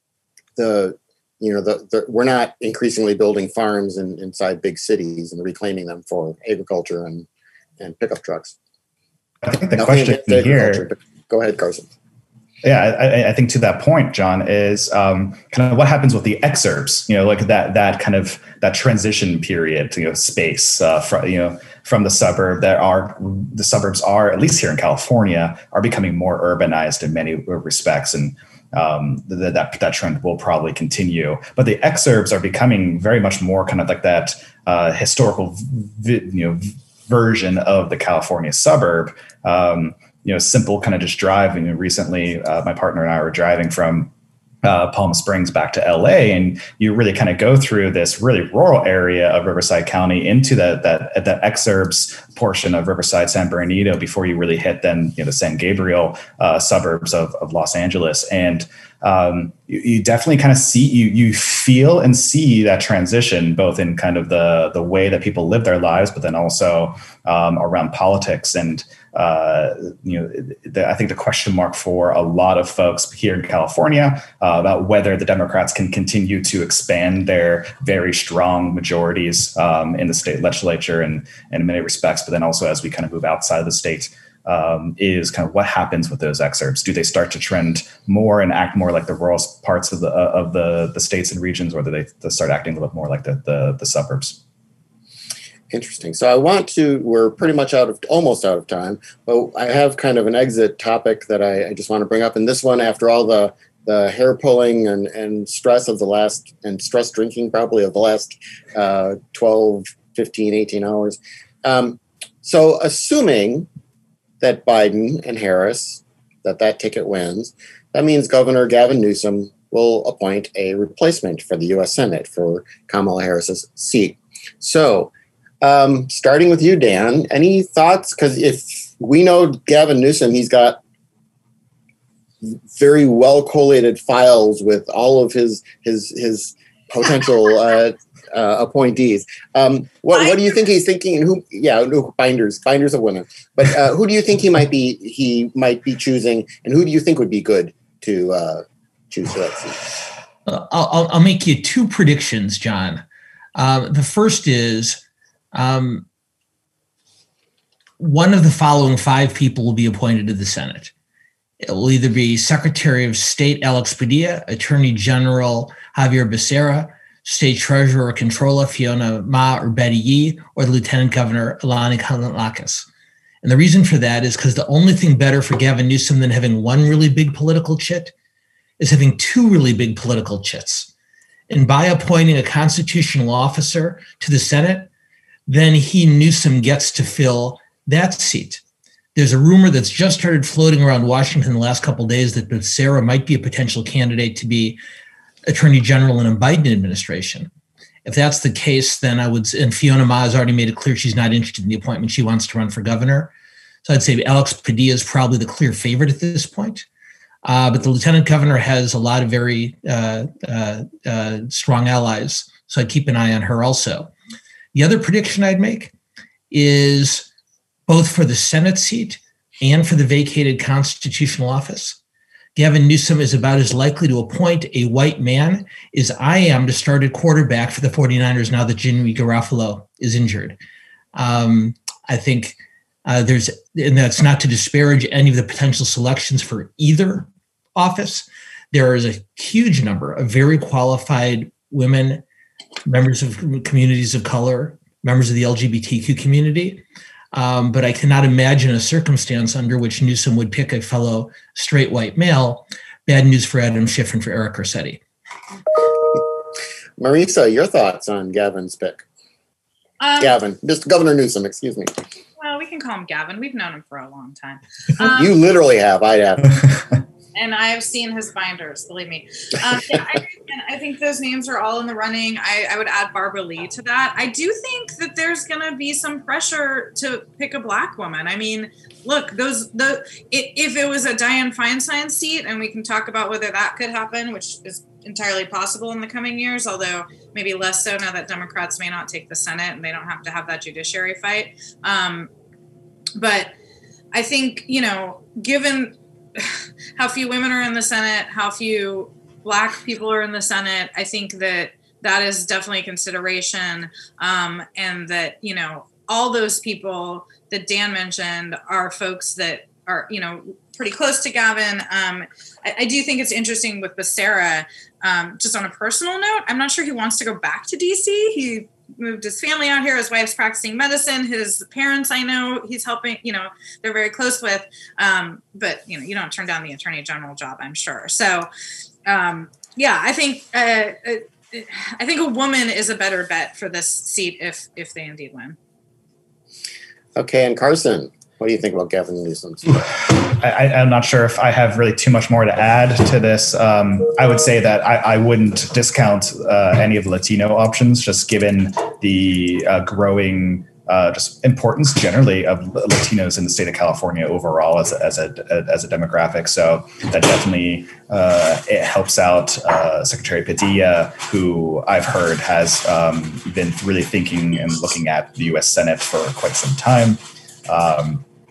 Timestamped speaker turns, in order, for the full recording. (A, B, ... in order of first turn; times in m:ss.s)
0:00.6-0:07.3 A
0:07.8-0:08.6 A
0:09.4-0:10.9 B
0:09.8-0:11.9 A
0:12.6-0:44.1 B
0:44.6-1:34.4 B
1:35.7-1:53.7 A
1:54.4-2:05.1 A
2:05.6-2:10.8 A
2:12.4-2:29.8 A
2:30.5-2:33.0 C
2:33.6-2:35.0 C
2:35.5-2:36.1 C
2:38.0-2:40.9 C
2:41.6-2:52.9 C
2:53.4-2:58.1 C
2:58.8-3:00.9 C
3:01.5-3:04.9 C
3:05.5-3:08.6 C
3:09.2-3:14.8 C
3:15.5-3:17.5 C
3:18.0-3:23.3 C
3:23.8-3:26.9 C
3:27.4-3:34.1 C
3:34.7-3:35.9 C
3:36.5-3:37.3 C
3:37.9-3:42.0 C
3:42.6-3:50.6 C
3:51.1-4:02.2 C
4:02.8-4:15.0 C
4:17.0-4:19.0 A
4:20.0-4:20.3 D
4:20.2-4:21.9 A
4:22.4-4:25.4 D
4:25.0-4:26.8 A
4:27.4-4:52.3 D
4:53.2-4:53.6 D
4:54.1-5:28.5 D
5:29.1-5:35.6 D
5:37.2-5:39.9 A
5:40.2-6:08.2 B